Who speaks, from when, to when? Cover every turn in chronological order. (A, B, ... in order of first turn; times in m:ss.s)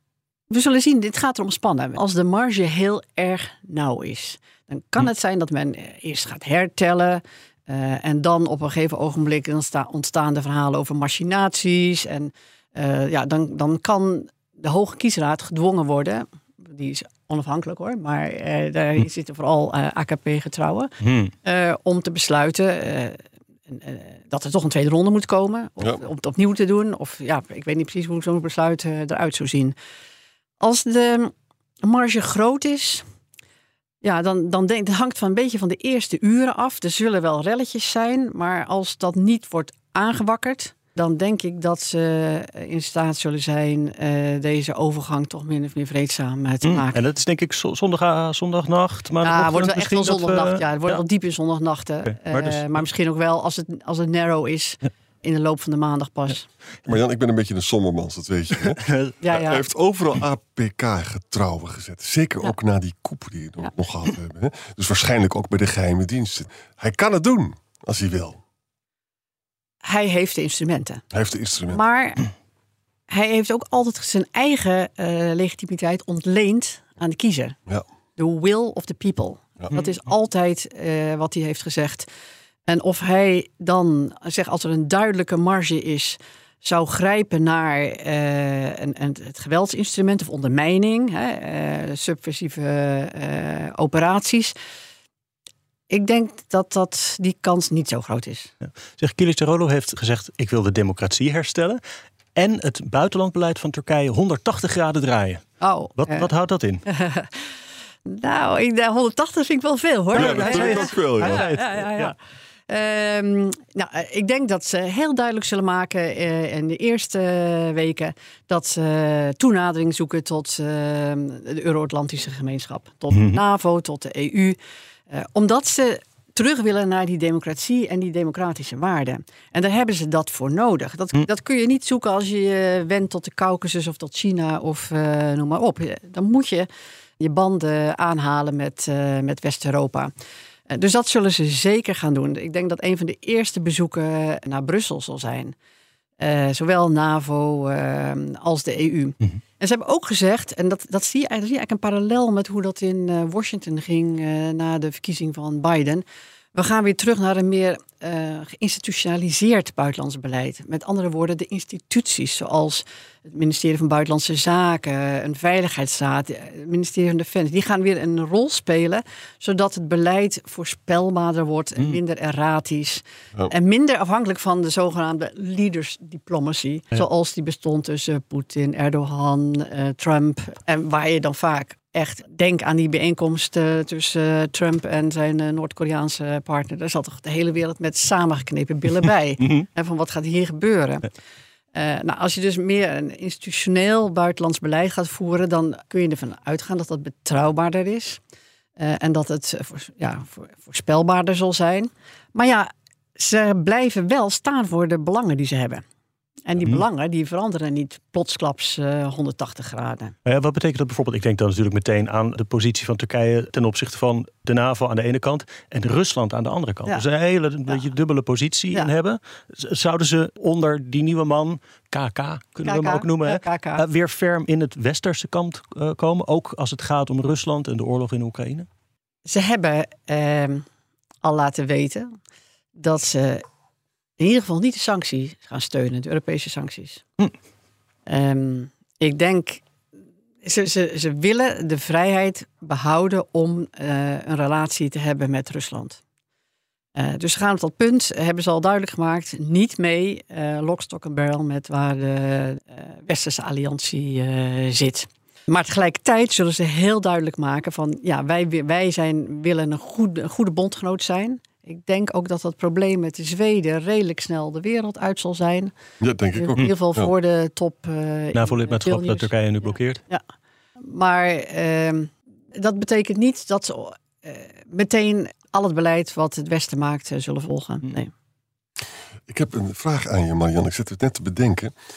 0:00.5-0:20.9 A
0:21.0-0:21.3 B
0:21.4-0:29.8 A
0:30.6-0:33.0 A
0:34.0-0:47.0 A
0:46.6-0:51.0 B
0:49.2-0:56.4 A
0:52.1-0:52.8 B
0:56.9-1:08.4 C
0:58.7-0:59.2 B
0:59.2-0:59.6 A
1:09.8-1:11.0 A
1:11.1-1:11.8 C
1:11.7-1:12.3 A
1:13.1-1:17.6 A
1:18.2-1:22.1 A
1:22.7-1:34.5 A
1:35.9-1:38.5 A
1:39.0-1:41.8 B
1:42.4-1:45.5 B
1:45.6-1:46.3 A
1:46.0-1:46.8 B
1:46.9-1:47.4 A
1:48.1-1:52.2 A
1:50.1-1:52.1 B
1:50.1-1:51.5 C
1:52.7-2:04.6 A
2:03.1-2:03.4 B
2:05.1-2:16.7 A
2:17.2-2:20.1 A
2:20.7-2:25.6 A
2:26.2-2:36.0 A
2:36.6-3:11.1 A
3:11.7-3:18.2 A
3:18.8-3:25.8 A
3:26.5-3:30.2 A
3:30.2-3:48.7 B
3:42.6-3:43.8 A
3:49.3-3:50.6 A
3:51.2-3:52.1 A
3:52.8-3:53.4 A
3:54.2-3:57.0 A
3:58.1-3:59.6 A
4:00.4-4:06.0 A
4:07.0-4:25.7 A
4:26.0-4:27.1 C
4:26.3-4:30.2 A
4:28.4-4:30.0 B
4:30.8-4:38.1 A
4:39.3-4:41.7 C